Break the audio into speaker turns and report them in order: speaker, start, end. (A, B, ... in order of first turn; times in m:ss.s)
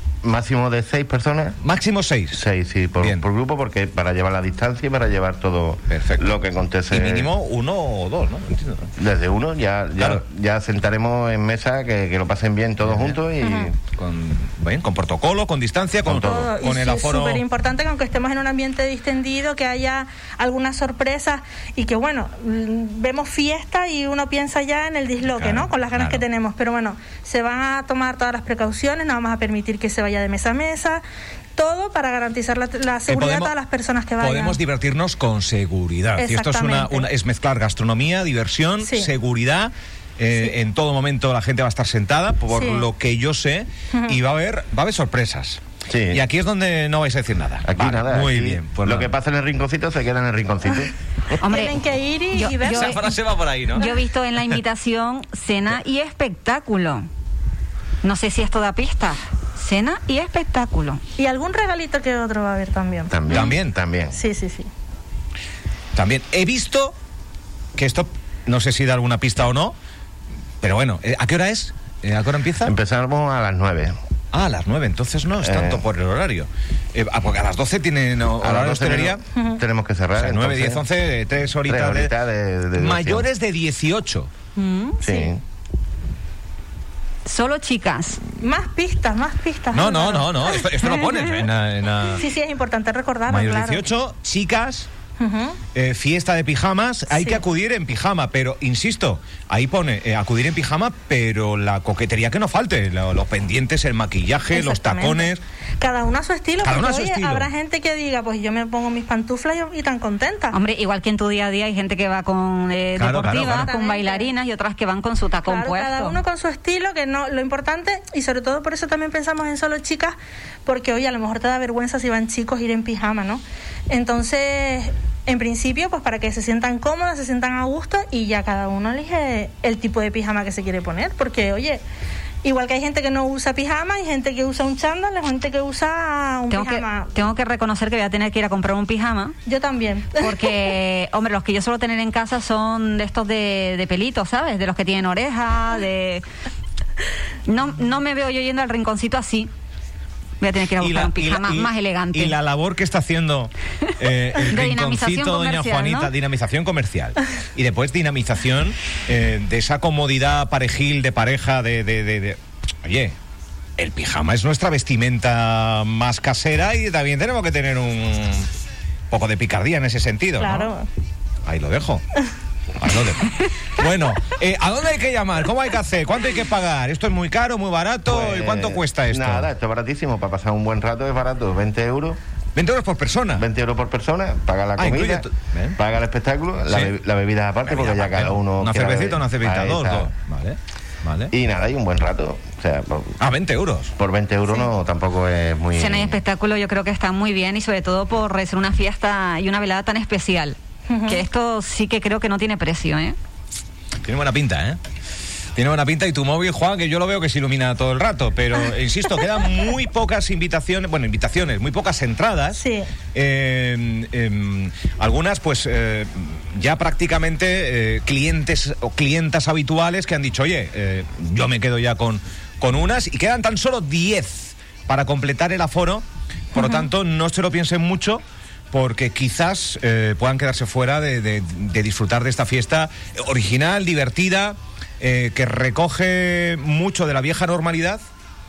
0:00.2-0:01.6 A
0:01.6-0:02.4 B
0:02.3-0:07.3 A
0:03.0-0:03.2 B
0:05.9-0:08.9 B
0:09.0-0:13.8 A
0:12.8-0:13.2 B
0:13.4-0:13.7 C
0:13.9-0:17.4 B
0:16.0-0:16.5 A
0:16.2-0:31.0 C
0:25.3-0:26.2 B
0:31.6-0:34.6 C
0:33.1-0:33.5 B
0:34.2-0:49.1 B
0:36.2-0:37.1 C
0:38.8-0:39.1 C
0:42.5-0:42.9 C
0:43.9-0:44.2 C
0:45.9-0:46.2 A
0:47.6-0:50.9 A
0:51.4-0:51.8 D
0:51.4-0:53.2 C
0:52.3-0:53.0 D
0:52.6-0:53.9 B
0:53.7-0:57.0 D
0:58.0-1:01.0 D
1:01.2-1:03.5 C
1:03.1-1:04.2 A
1:03.3-1:03.8 B
1:04.1-1:04.7 C
1:05.9-1:06.9 B
1:07.8-1:09.7 B
1:10.6-1:12.7 B
1:12.6-1:14.0 A
1:14.3-1:19.2 B
1:15.4-1:15.8 A
1:18.4-1:20.8 A
1:19.3-1:19.6 C
1:20.2-1:22.1 B
1:21.6-1:23.3 A
1:22.8-1:24.3 B
1:24.5-1:25.0 D
1:25.0-1:25.3 C
1:25.0-1:25.4 A
1:27.2-1:28.2 D
1:28.3-1:30.6 C
1:29.7-1:32.2 B
1:32.1-1:33.9 C
1:33.3-1:34.9 B
1:35.2-1:35.6 C
1:35.7-1:45.4 B
1:37.1-1:37.4 C
1:44.5-1:50.6 C
1:46.6-1:47.5 B
1:50.5-1:56.2 D
1:53.0-1:53.7 B
1:53.3-1:54.3 C
1:55.4-2:11.8 C
2:12.4-2:17.1 C
2:16.5-2:19.3 D
2:19.4-2:20.5 C
2:20.2-2:26.2 D
2:27.4-2:29.5 D
2:30.4-2:32.3 D
2:30.8-2:43.1 B
2:34.3-2:36.1 D
2:43.8-2:48.5 B
2:49.1-2:50.7 B
2:50.4-2:50.9 C
2:51.4-2:52.0 B
2:52.8-2:59.5 B
2:58.1-3:02.2 A
3:02.6-3:03.4 B
3:03.3-3:10.1 A
3:04.8-3:05.8 B
3:07.6-3:11.3 B
3:11.3-3:13.2 A
3:13.2-3:13.9 B
3:14.0-3:16.2 A
3:15.7-3:23.2 D
3:20.9-3:21.2 C
3:24.0-3:24.8 B
3:25.6-3:58.0 B
3:32.5-3:32.9 C
3:46.6-3:46.8 D